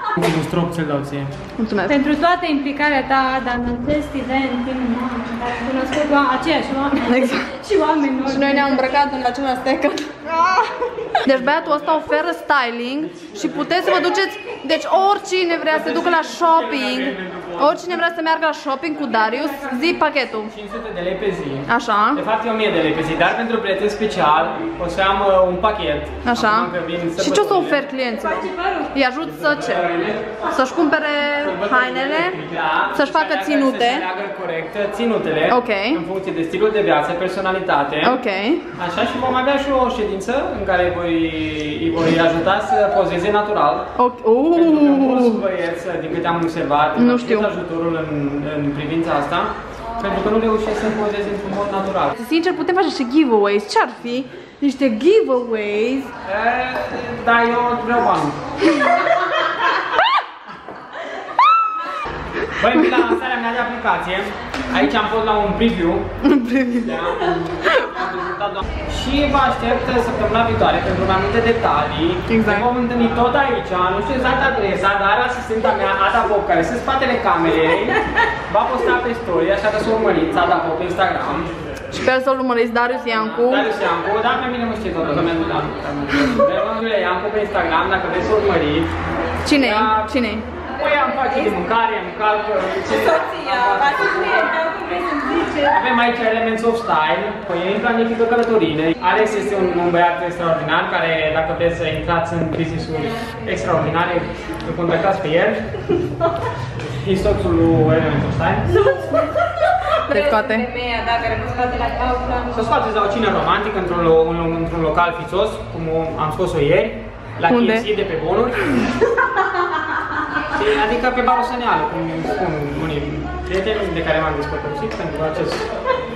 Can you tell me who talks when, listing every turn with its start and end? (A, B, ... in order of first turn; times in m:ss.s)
0:00.2-0:01.3 A
0:01.6-0:02.0 B
0:01.9-0:08.9 C
0:07.0-0:07.5 B
0:08.2-0:20.5 B
0:13.2-0:13.7 A
0:15.6-0:18.0 A
0:20.5-0:27.8 A
0:21.7-0:22.2 B
0:26.2-0:29.9 B
0:28.2-0:28.9 C
0:29.3-0:30.3 A
0:30.5-0:32.4 B
0:31.4-0:38.2 A
0:32.9-0:34.1 B
0:35.5-0:36.0 B
0:38.0-0:38.7 B
0:38.7-0:43.9 A
0:44.0-0:45.4 B
0:44.5-0:52.2 A
0:47.0-0:47.5 B
0:52.2-0:56.1 B
0:56.2-0:58.4 A
1:02.6-1:06.1 A
1:06.2-1:07.9 B
1:06.8-1:21.5 A
1:12.3-1:12.7 B
1:21.9-1:23.7 B
1:23.1-1:28.9 A
1:29.4-1:30.4 B
1:29.6-1:30.1 A
1:30.7-1:34.5 A
1:32.9-1:35.8 C
1:35.7-1:45.7 A
1:46.8-1:48.7 A
1:48.7-1:52.7 C
1:49.9-1:50.7 B
1:52.5-1:58.8 A
1:57.5-1:57.8 B
2:00.5-2:05.7 A